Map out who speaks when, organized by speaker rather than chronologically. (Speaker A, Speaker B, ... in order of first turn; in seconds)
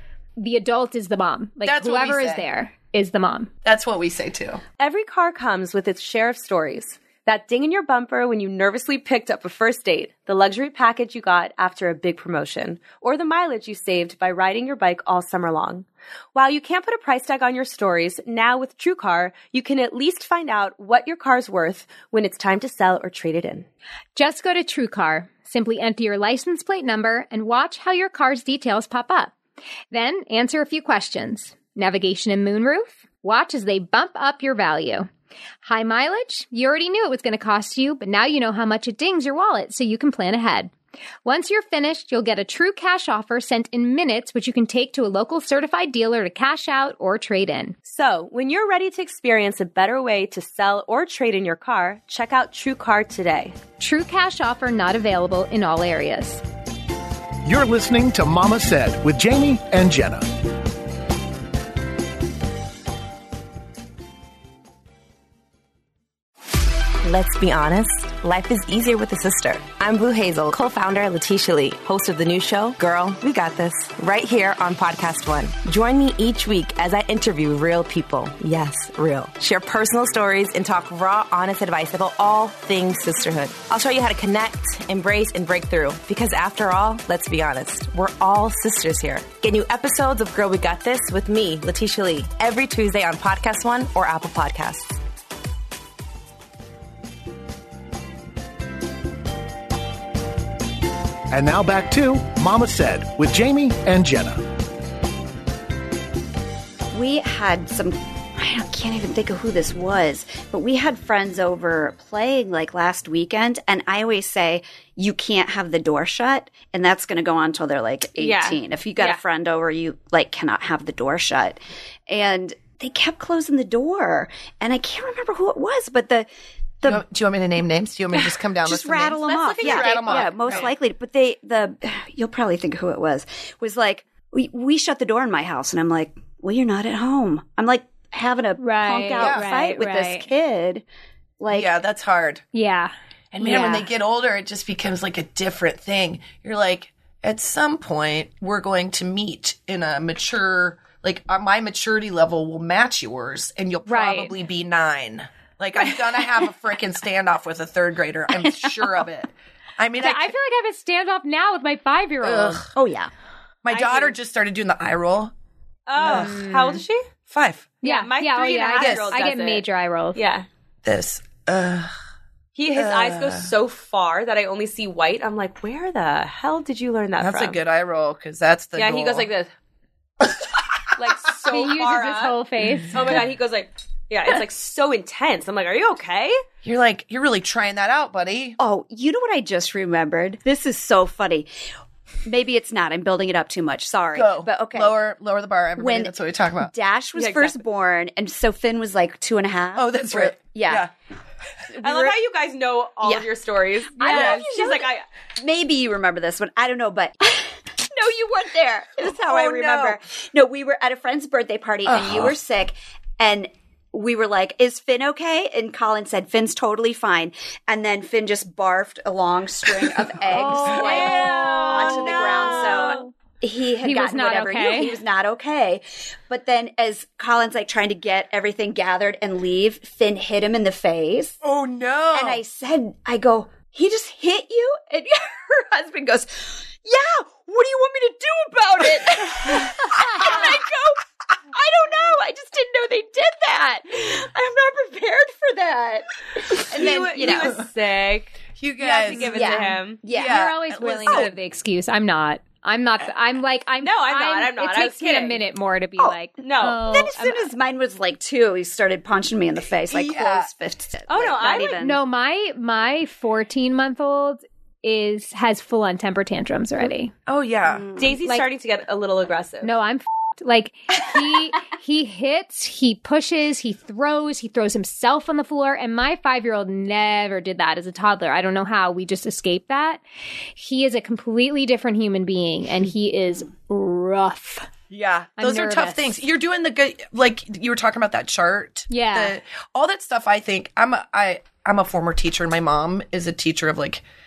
Speaker A: 0.4-3.5, 24.2-29.3, 29.9-35.1, 35.6-40.7, 41.2-47.8, 53.8-56.4, 138.6-140.3, 142.5-143.8, 153.9-154.3, 160.0-162.7, 166.1-166.8, 167.8-170.2, 181.5-183.0, 220.3-223.1, 223.8-225.0, 248.8-257.5, 261.8-267.1, 269.6-280.0, 280.6-284.7, 285.4-286.2, 288.9-289.4
Speaker B: 1.6-2.5, 3.6-4.6, 126.8-130.7, 139.2-139.5, 141.5-142.4, 143.3-160.3, 162.2-162.7, 163.6-165.3, 166.0-166.4, 167.3-167.8, 168.8-169.2, 170.8-171.9, 172.7-173.5, 177.2-179.3, 180.2-180.5, 186.6-188.6, 194.1-196.7, 199.8-200.9, 204.1-204.4, 209.0-210.0, 211.8-212.4, 219.7-221.2, 231.4-232.4, 246.8-247.6, 248.6-249.5, 250.1-251.3, 259.9-260.5, 267.3-267.9, 284.9-294.0
Speaker C: 4.8-23.7, 47.9-53.6, 118.2-119.2, 129.3-130.7, 163.7-164.2, 165.9-167.0, 167.8-170.5, 172.6-177.6, 178.8-179.5, 181.0-182.4, 182.9-186.3, 197.2-197.6, 201.8-205.1, 220.7-223.0, 246.7-248.4, 248.9-250.0, 253.8-255.4, 256.4-256.9, 261.1-261.8, 268.0-269.8
Speaker D: 57.5-60.3, 101.3-104.4
Speaker E: 67.0-95.0
Speaker F: 106.9-126.3, 128.6-140.8, 141.4-141.7, 143.5-143.8, 162.7-163.1, 188.6-191.5, 192.3-194.9, 195.8-200.9, 201.7-202.2, 204.0-231.4, 232.1-247.6, 249.3-250.5, 251.1-251.3, 256.8-262.0, 267.6-268.2